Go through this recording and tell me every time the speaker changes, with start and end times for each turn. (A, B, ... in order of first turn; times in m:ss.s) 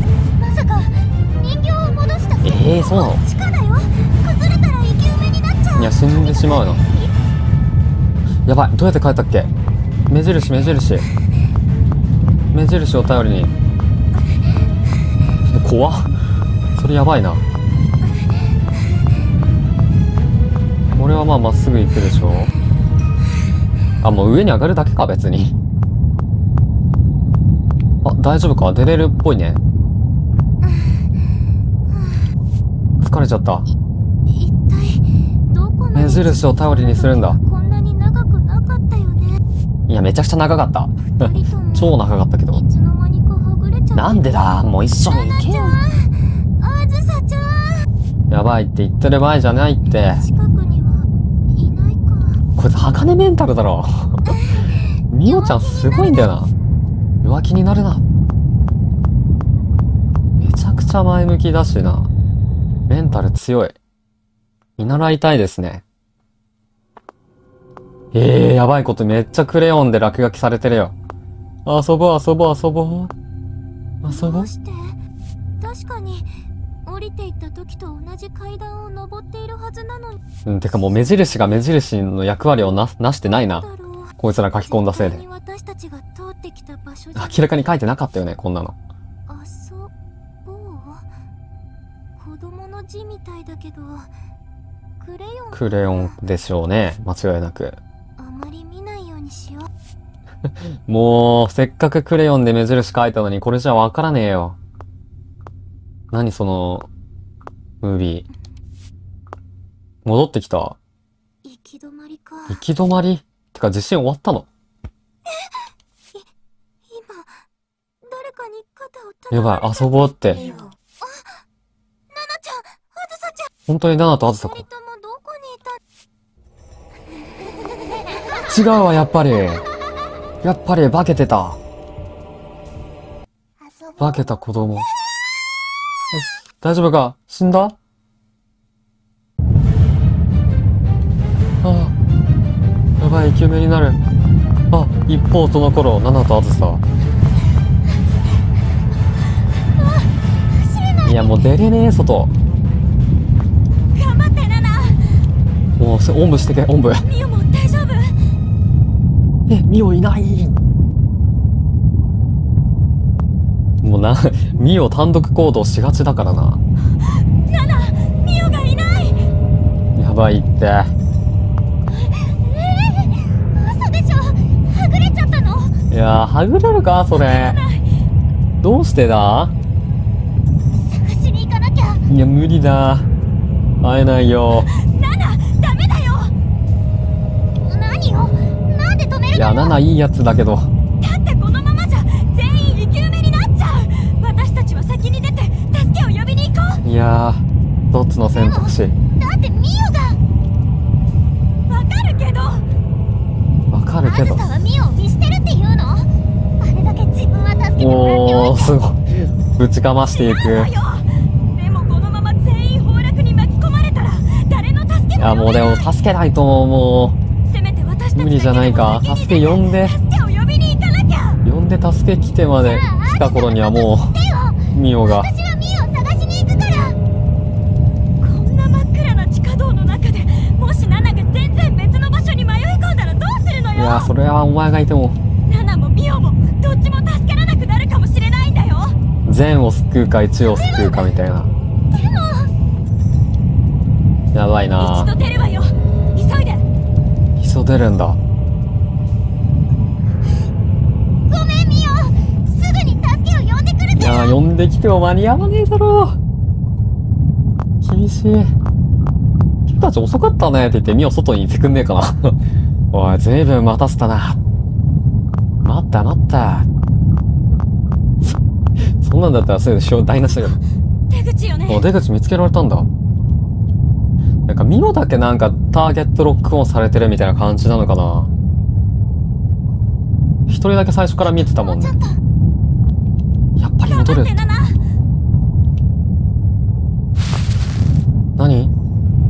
0:00.4-0:07.1 A
0:02.4-0:03.2 B
0:05.8-0:06.8 B
0:08.5-0:09.5 B
0:10.1-0:11.0 B
0:12.5-0:13.5 B
0:15.5-0:16.2 B
0:16.7-0:17.4 B
0:21.0-0:22.5 B
0:24.0-0:25.5 B
0:28.0-0:29.6 B
0:30.6-0:31.1 A
0:31.9-0:32.3 A
0:33.0-0:33.7 B
0:34.3-0:39.3 A
0:35.9-0:37.4 B
0:39.9-0:42.6 B
0:41.2-0:42.0 A
0:42.5-0:44.1 A
0:43.9-0:45.8 B
0:45.0-0:47.9 A
0:48.3-0:50.2 B
0:50.0-0:51.0 A
0:51.6-0:52.4 A
0:52.6-0:54.3 B
0:54.2-0:56.4 A
0:55.1-0:56.5 B
0:57.2-0:58.0 B
1:00.4-1:02.1 B
1:02.9-1:03.8 B
1:04.8-1:05.8 B
1:08.1-1:10.9 B
1:11.6-1:13.1 B
1:14.0-1:14.5 B
1:14.1-1:15.0 A
1:15.6-1:16.2 A
1:16.8-1:20.2 A
1:20.4-1:23.7 B
1:21.1-1:21.5 A
1:23.2-1:24.1 A
1:24.2-1:25.2 B
1:24.7-1:27.4 A
1:27.1-1:28.8 B
1:29.3-1:29.9 A
1:30.4-1:31.0 A
1:32.2-1:34.1 A
1:35.0-1:36.2 A
1:35.5-1:37.8 B
1:38.2-1:39.7 A
1:40.9-1:44.6 B
1:46.1-1:46.9 B
1:47.8-1:48.2 B
1:50.0-1:50.8 B
1:51.4-1:52.6 A
1:52.5-1:54.5 B
1:56.9-1:57.3 A
1:58.1-2:01.3 A
1:59.3-2:00.4 B
2:00.3-2:00.7 C
2:02.1-2:03.5 A
2:03.7-2:04.6 B
2:04.3-2:05.8 A
2:07.7-2:08.4 A
2:08.4-2:09.6 B
2:10.4-2:11.6 B
2:13.6-2:14.5 A
2:14.0-2:14.9 B
2:16.1-2:17.8 B
2:21.6-2:21.9 B
2:23.0-2:24.0 B
2:24.7-2:26.8 B
2:29.8-2:31.5 A
2:31.0-2:32.3 B
2:33.9-2:35.2 C
2:35.8-2:37.0 B
2:37.0-2:38.2 C
2:39.5-2:40.6 B
2:43.8-2:46.6 B
2:47.0-2:49.3 C
2:50.0-2:50.9 B
2:51.9-2:55.7 A
2:55.9-2:57.6 B
2:57.1-2:57.8 C
2:58.6-2:59.5 B
3:00.7-3:02.0 A
3:02.1-3:03.1 B
3:03.8-3:04.7 B
3:04.6-3:06.3 C
3:07.6-3:09.8 A
3:09.3-3:10.7 B
3:11.0-3:16.8 C
3:16.8-3:18.9 B
3:18.3-3:20.2 A
3:21.7-3:22.7 C
3:23.7-3:24.5 B
3:24.0-3:26.1 A
3:26.6-3:28.8 A
3:27.8-3:30.7 B
3:30.0-3:35.9 C
3:35.2-3:37.2 B
3:37.4-3:41.4 C
3:38.2-3:40.0 B
3:41.4-3:44.1 B
3:42.6-3:47.0 A
3:44.7-3:45.3 B
3:48.2-3:54.1 C
3:53.7-3:55.2 B
3:55.4-3:59.0 C
3:59.2-4:01.5 B
4:00.4-4:01.2 A
4:01.9-4:02.5 A
4:04.3-4:05.1 B
4:04.8-4:06.6 C
4:07.4-4:08.2 B
4:11.3-4:14.4 A
4:14.0-4:16.2 B
4:17.8-4:18.5 B
4:19.7-4:22.4 B
4:22.9-4:24.4 B
4:25.6-4:26.7 B
4:29.0-4:30.6 B
4:30.2-4:31.9 C
4:31.7-4:32.9 B
4:34.5-4:38.3 B
4:40.5-4:42.0 B
4:41.2-4:42.2 A
4:43.6-4:44.4 B
4:43.8-4:44.8 C
4:48.4-4:48.7 B